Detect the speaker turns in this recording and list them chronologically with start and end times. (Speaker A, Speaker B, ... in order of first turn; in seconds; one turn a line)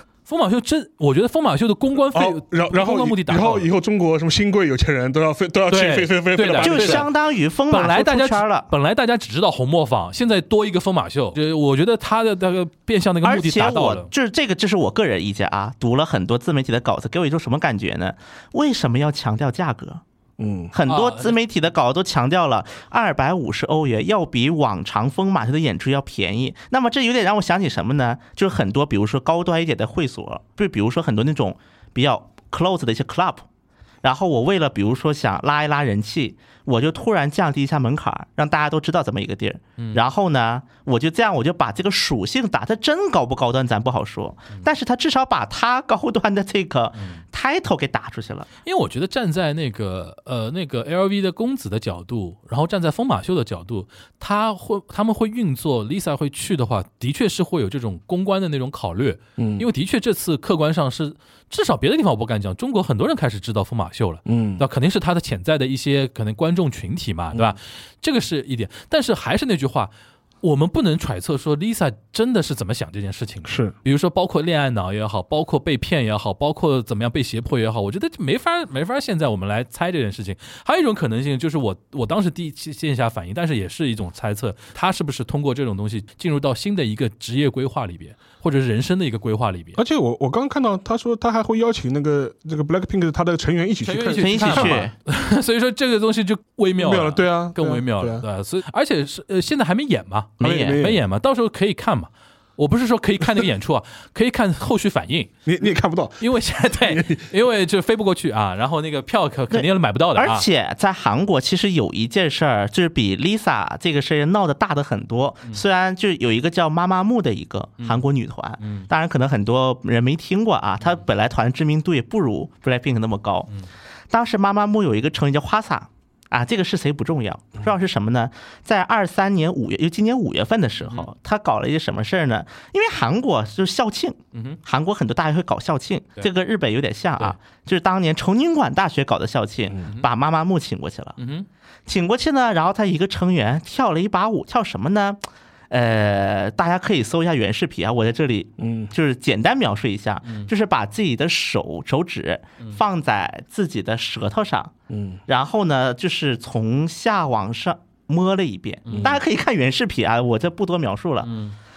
Speaker A: 0.3-3.7
Speaker B: 2.1-7.1
Speaker A: 5.7-7.1
Speaker C: 6.6-8.7
Speaker A: 7.7-14.1
Speaker C: 13.2-20.0
Speaker B: 20.4-20.7
Speaker C: 20.7-33.5
Speaker A: 20.9-21.4
Speaker C: 34.0-48.5
Speaker A: 47.0-47.2
Speaker A: 48.6-89.8
Speaker B: 59.4-59.7
Speaker B: 64.3-64.6
Speaker B: 73.5-73.7
Speaker B: 89.8-94.9
Speaker A: 93.8-105.3
Speaker C: 94.2-94.9
Speaker B: 96.8-98.2
Speaker C: 100.4-100.8
Speaker B: 100.4-101.0
Speaker B: 105.5-107.3
Speaker A: 106.2-110.5
Speaker C: 109.5-123.5
Speaker A: 118.6-118.9
Speaker C: 124.1-141.2
Speaker A: 134.3-134.6
Speaker A: 141.2-141.5
Speaker C: 141.9-145.2
Speaker C: 145.7-154.7
Speaker B: 148.6-148.9
Speaker A: 150.2-150.5
Speaker B: 154.9-155.2
Speaker C: 155.3-161.3
Speaker A: 158.9-159.2
Speaker B: 158.9-159.2
Speaker A: 161.2-161.6